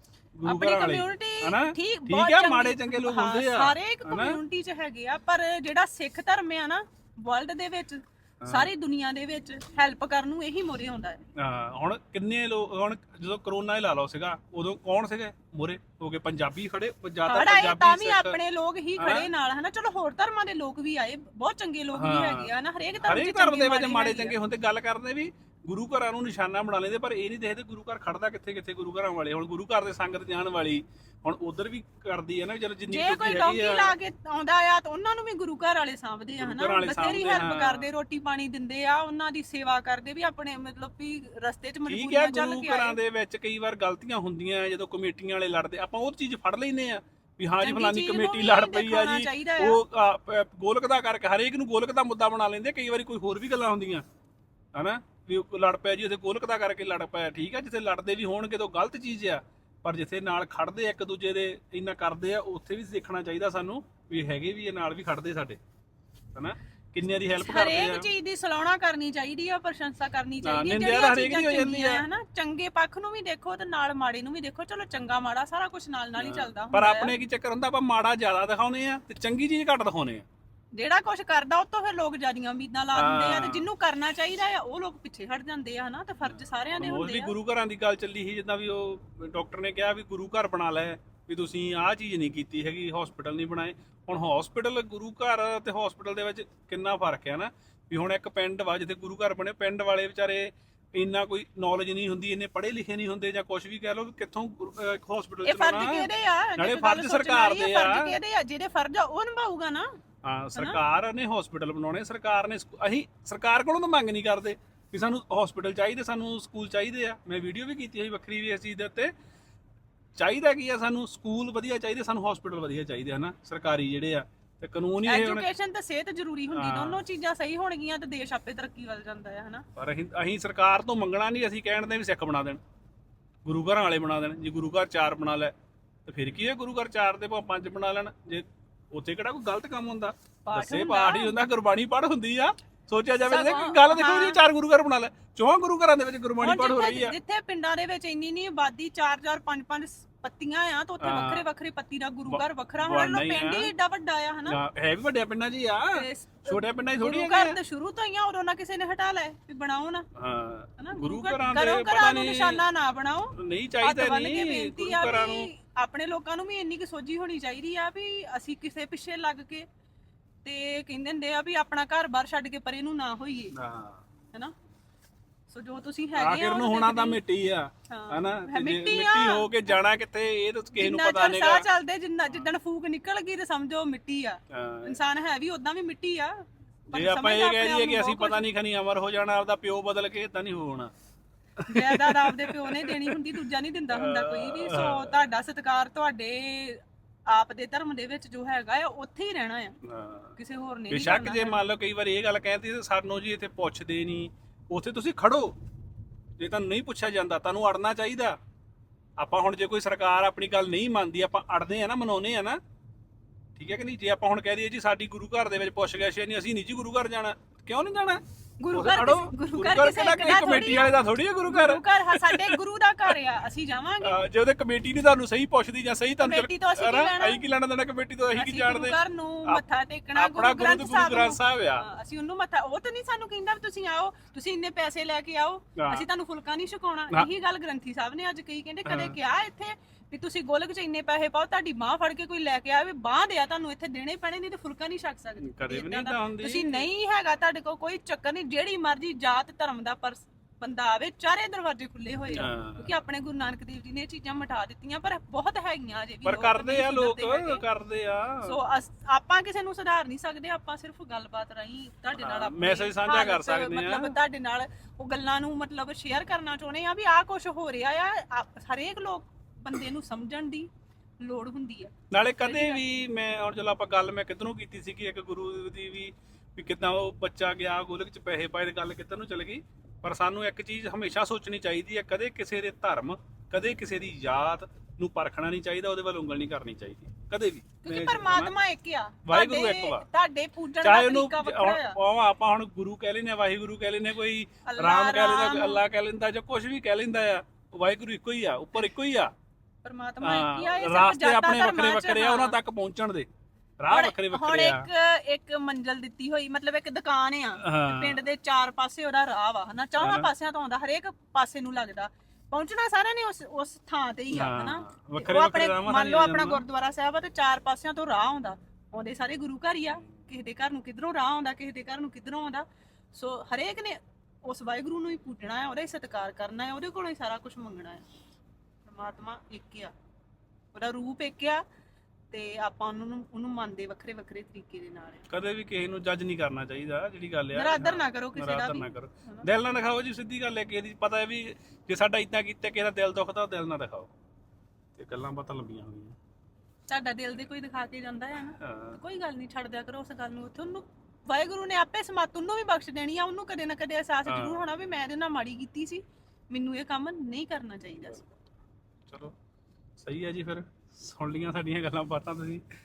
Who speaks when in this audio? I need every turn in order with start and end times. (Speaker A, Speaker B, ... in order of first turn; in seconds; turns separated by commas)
Speaker A: 0.3-4.4, Speaker B: 0.4-11.2, Speaker A: 8.4-8.7, Speaker A: 11.4-18.4, Speaker B: 17.3-24.4, Speaker A: 19.0-19.3, Speaker A: 21.9-33.9, Speaker B: 32.9-43.0, Speaker A: 36.4-37.9, Speaker A: 41.9-54.0, Speaker B: 47.6-49.8, Speaker A: 54.7-65.6, Speaker A: 66.3-68.1, Speaker B: 67.4-77.1, Speaker A: 70.4-72.0, Speaker A: 76.2-80.2, Speaker B: 80.7-87.3, Speaker A: 82.9-83.7, Speaker A: 86.2-108.1, Speaker B: 105.4-109.9, Speaker A: 110.2-119.1, Speaker A: 120.2-125.5, Speaker B: 125.0-129.7, Speaker A: 126.5-127.0, Speaker A: 129.8-132.6, Speaker A: 133.4-135.5, Speaker A: 136.1-147.2, Speaker B: 140.4-141.4, Speaker B: 143.2-144.4, Speaker B: 146.4-154.6, Speaker A: 151.0-151.4, Speaker A: 152.3-153.7, Speaker A: 154.5-157.6, Speaker B: 155.9-160.1, Speaker A: 160.2-162.6, Speaker B: 160.8-169.7, Speaker A: 163.3-165.5, Speaker B: 170.4-173.5, Speaker A: 173.5-174.0, Speaker B: 175.5-177.2, Speaker A: 176.2-181.7, Speaker B: 177.9-179.8, Speaker B: 180.7-188.4, Speaker A: 184.5-185.0, Speaker A: 186.9-190.9, Speaker A: 191.6-193.2, Speaker B: 191.7-199.8, Speaker A: 193.9-195.2, Speaker A: 199.8-200.4, Speaker B: 200.4-201.6, Speaker A: 200.9-205.6, Speaker A: 206.4-208.4, Speaker A: 209.2-212.6, Speaker A: 213.5-222.6, Speaker B: 218.6-224.2, Speaker A: 224.0-229.6, Speaker B: 226.2-227.4, Speaker B: 228.3-257.6, Speaker A: 230.1-231.9, Speaker A: 235.8-236.1, Speaker A: 238.8-239.1, Speaker A: 245.4-246.9, Speaker A: 252.3-252.9, Speaker A: 256.2-258.6, Speaker B: 258.4-272.8, Speaker A: 262.2-264.2, Speaker A: 272.1-288.5, Speaker B: 287.8-292.0, Speaker A: 289.2-290.1, Speaker A: 290.8-299.3, Speaker B: 294.6-295.8, Speaker B: 299.8-302.6, Speaker A: 300.2-303.3, Speaker A: 303.8-304.9, Speaker B: 303.9-328.0, Speaker A: 307.6-308.2, Speaker A: 310.0-310.3, Speaker A: 314.3-316.6, Speaker B: 328.8-329.9, Speaker B: 330.7-331.6, Speaker B: 332.3-335.3, Speaker A: 335.3-344.1, Speaker B: 337.5-339.4, Speaker A: 344.9-346.1, Speaker B: 346.9-358.3, Speaker A: 348.6-349.0, Speaker A: 354.3-354.6, Speaker A: 359.1-359.3, Speaker A: 360.0-362.6